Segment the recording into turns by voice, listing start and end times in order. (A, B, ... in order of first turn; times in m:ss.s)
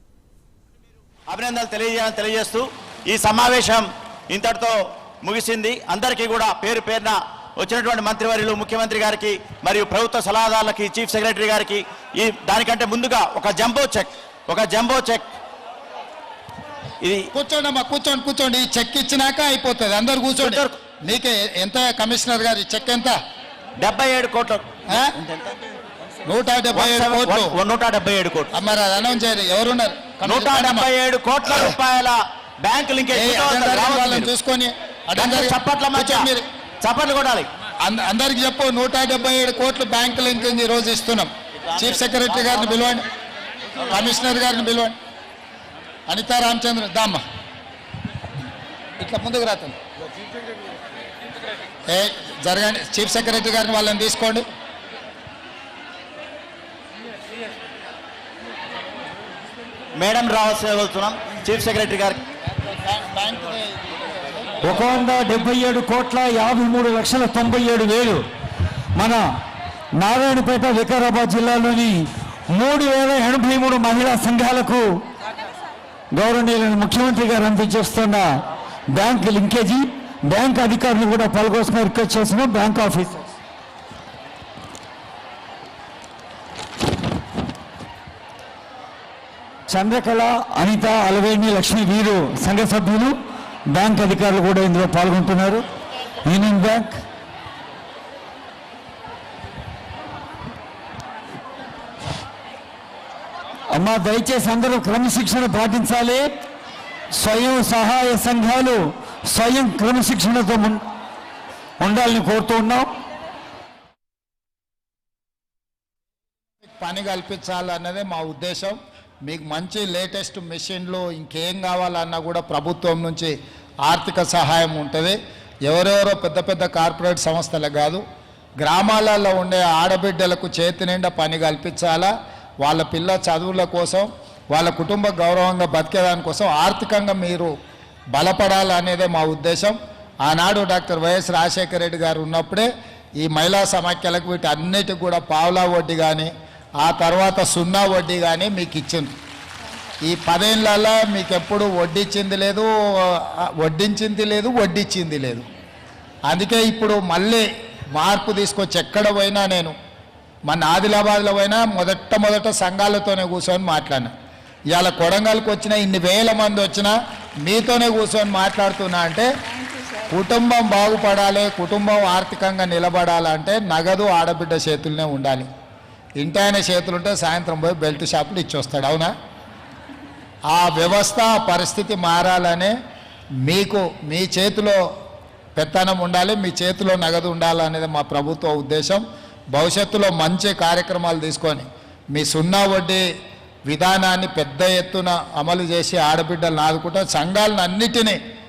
0:01.3-0:15.3 A
0:17.3-0:23.2 B
0:20.4-0:20.8 A
0:23.8-0:25.4 A
0:24.9-0:25.2 B
0:26.2-0:27.5 B
0:26.7-0:28.5 A
0:28.5-0:30.9 B
0:30.2-0:34.3 A
0:33.1-0:36.5 B
0:35.2-0:36.2 A
0:36.8-0:37.5 A
0:37.9-0:43.0 B
0:41.7-0:43.0 A
0:43.9-0:44.9 B
0:46.1-0:47.2 B
0:49.0-0:49.8 B
0:51.9-0:54.5 B
1:00.0-1:02.2 A
1:02.7-1:04.5 B
1:04.6-1:08.2 C
1:09.0-1:09.2 C
1:10.0-1:12.0 C
1:12.5-1:14.8 C
1:16.2-1:18.3 C
1:18.9-1:23.3 C
1:29.7-1:33.2 C
1:33.7-1:35.6 C
1:36.2-1:37.0 C
1:43.7-1:46.3 C
1:47.2-1:50.8 C
1:51.8-1:52.9 C
1:56.8-2:03.4 B
2:03.9-2:08.0 B
2:08.6-2:12.1 B
2:12.6-2:17.5 B
2:18.2-2:22.7 B
2:23.2-2:26.3 B
2:26.8-2:29.1 B
2:30.0-2:35.4 B
2:36.3-2:39.8 B
2:40.5-2:44.1 B
2:44.7-2:46.9 B
2:47.5-2:49.3 B
2:50.1-2:55.5 B
2:56.2-2:59.1 B
3:00.5-3:02.8 B
3:03.4-3:04.8 B
3:05.6-3:09.0 B
3:09.5-3:13.0 B
3:13.7-3:18.2 B